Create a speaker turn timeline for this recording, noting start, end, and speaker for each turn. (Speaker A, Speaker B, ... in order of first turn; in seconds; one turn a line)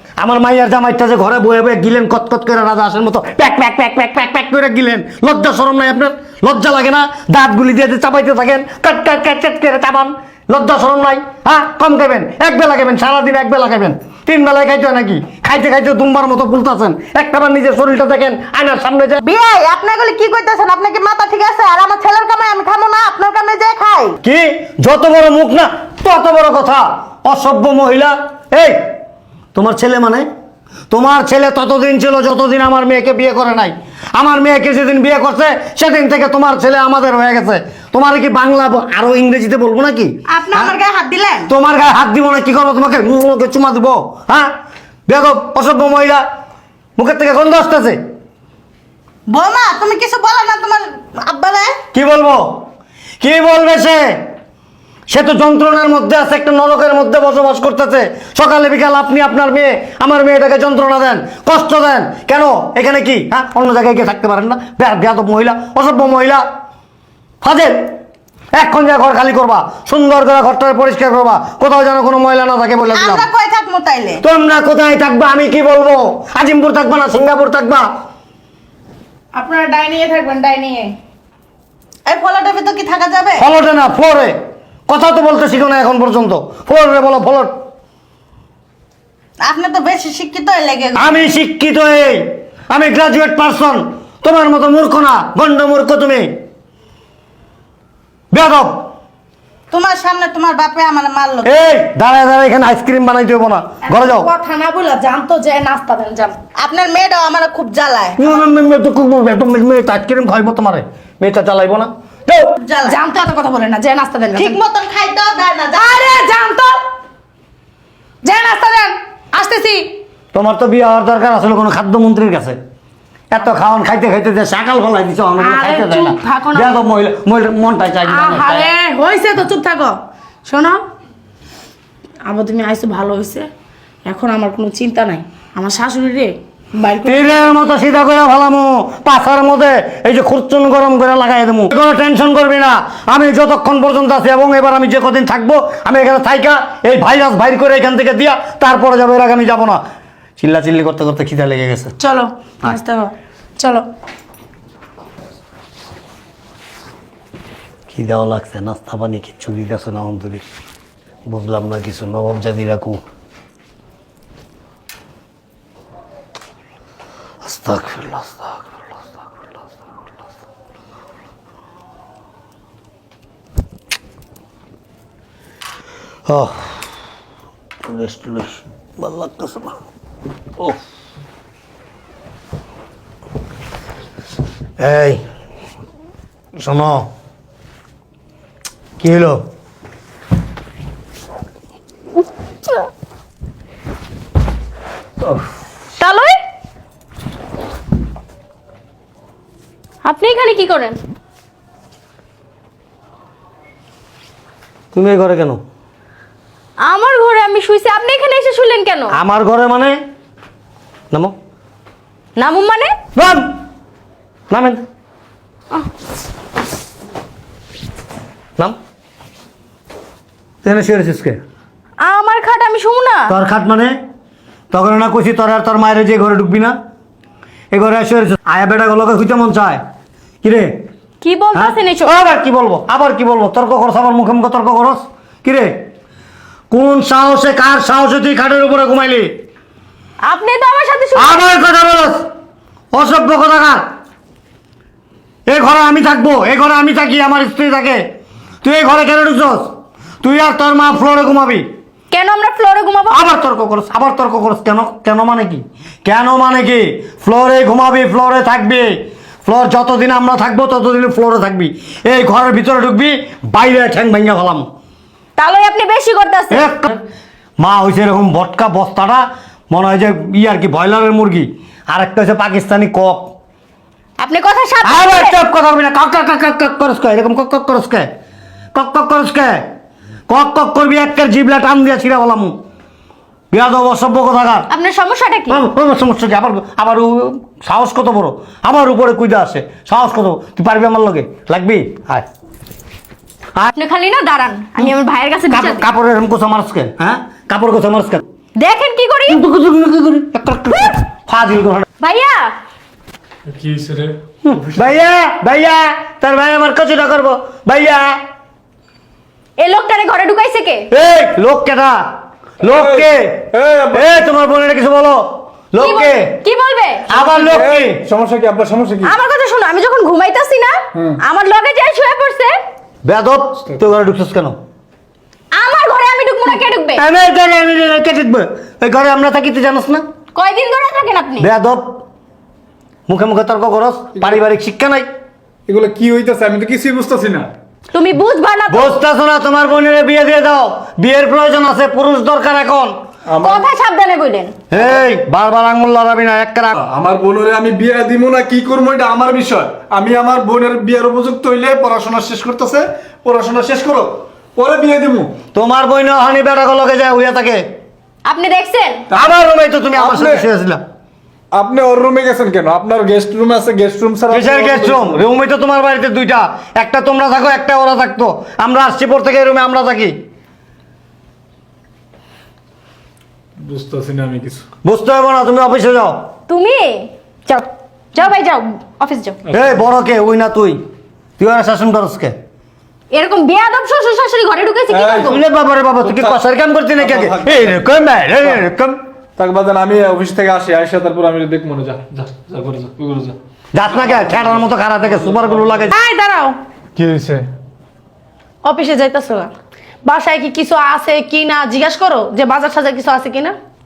Speaker A: 0.2-19.2
Speaker B: 19.2-24.2
Speaker A: 24.2-28.8
Speaker A: 29.6-30.3
Speaker A: 30.9-40.8
Speaker B: 40.3-41.5
Speaker A: 41.5-44.5
Speaker A: 45.1-46.2
Speaker A: 47.0-48.0
Speaker B: 49.3-51.8
Speaker A: 51.9-52.6
Speaker A: 53.2-54.2
Speaker A: 55.1-66.4
Speaker A: 67.4-67.9
Speaker A: 68.5-73.3
Speaker B: 72.9-74.2
Speaker A: 74.2-77.9
Speaker C: 79.3-81.0
Speaker B: 82.1-83.4
Speaker A: 83.4-84.3
Speaker A: 84.9-87.5
Speaker B: 89.4-91.3
Speaker A: 91.0-96.3
Speaker A: 98.3-98.8
Speaker B: 99.7-101.5
Speaker A: 101.4-104.3
Speaker C: 103.9-106.4
Speaker B: 106.6-108.4
Speaker A: 108.2-112.5
Speaker B: 112.6-113.0
Speaker C: 112.9-114.6
Speaker B: 114.4-116.1
Speaker C: 115.8-116.8
Speaker C: 118.2-119.9
Speaker A: 120.3-122.6
Speaker A: 123.3-128.7
Speaker C: 125.4-126.8
Speaker C: 128.1-130.8
Speaker C: 132.2-133.5
Speaker C: 134.1-137.6
Speaker A: 137.0-149.8
Speaker A: 150.4-151.9
Speaker C: 152.0-153.8
Speaker A: 157.9-160.4
Speaker A: 161.3-163.0
Speaker A: 167.4-168.7
Speaker A: 176.3-176.8
Speaker A: 177.8-179.8
Speaker A: 184.8-185.2
Speaker A: 186.6-187.1
Speaker A: 189.0-189.4
Speaker D: 196.0-196.3
Speaker D: 200.1-201.0
Speaker A: 204.9-205.6
Speaker D: 206.8-209.1
Speaker A: 209.1-210.0
Speaker D: 212.4-212.9
Speaker A: 213.2-213.5
Speaker A: 214.5-214.8
Speaker A: 220.6-221.4
Speaker D: 222.0-223.3
Speaker A: 223.3-224.0
Speaker A: 224.7-226.8
Speaker A: 227.7-229.8
Speaker A: 230.4-230.8
Speaker D: 231.2-232.1
Speaker A: 231.5-235.8
Speaker A: 236.7-239.3
Speaker D: 240.2-241.3
Speaker A: 241.2-242.2
Speaker A: 242.9-243.8
Speaker A: 245.5-248.0
Speaker A: 248.6-249.7
Speaker A: 250.2-251.7
Speaker D: 252.1-253.1
Speaker A: 253.1-258.9
Speaker A: 259.4-264.6
Speaker D: 265.4-266.5
Speaker A: 266.5-267.0
Speaker A: 267.6-273.3
Speaker D: 274.2-275.3
Speaker A: 274.8-278.1
Speaker A: 278.8-279.6
Speaker A: 280.3-282.5
Speaker A: 283.5-284.7
Speaker D: 284.8-285.5
Speaker A: 285.5-292.3
Speaker D: 293.8-295.8
Speaker A: 295.5-298.2
Speaker D: 298.6-299.3
Speaker A: 299.3-301.9
Speaker D: 302.0-302.5
Speaker E: 303.5-304.2
Speaker A: 304.4-308.2
Speaker D: 309.6-310.9
Speaker A: 310.9-312.0
Speaker A: 312.6-316.4
Speaker E: 312.6-314.2
Speaker D: 315.8-317.0
Speaker A: 317.1-318.0
Speaker E: 317.1-319.2
Speaker D: 319.1-322.6
Speaker E: 320.9-321.2
Speaker A: 323.0-324.6
Speaker D: 325.5-327.0
Speaker A: 326.9-330.1
Speaker D: 330.4-331.4
Speaker A: 331.4-332.0
Speaker A: 333.1-335.1
Speaker E: 335.7-337.5
Speaker D: 337.9-338.9
Speaker A: 338.7-343.0
Speaker E: 343.3-343.7
Speaker D: 343.5-344.6
Speaker A: 344.7-346.8
Speaker E: 346.8-355.4
Speaker A: 355.5-357.6
Speaker D: 358.3-359.0
Speaker A: 359.1-360.8
Speaker E: 359.9-360.5
Speaker E: 361.5-365.2
Speaker A: 364.3-370.2
Speaker E: 373.6-374.6
Speaker A: 374.9-376.2
Speaker D: 376.5-379.4
Speaker E: 379.5-379.8
Speaker A: 379.5-380.8
Speaker A: 381.4-382.4
Speaker D: 383.1-385.3
Speaker E: 384.9-385.4
Speaker A: 385.3-389.0
Speaker E: 386.0-386.4
Speaker E: 386.9-388.7
Speaker E: 389.4-393.4
Speaker A: 393.7-395.9
Speaker E: 394.0-395.9
Speaker C: 395.9-396.6
Speaker E: 397.0-397.5
Speaker C: 398.6-399.5
Speaker C: 400.1-403.6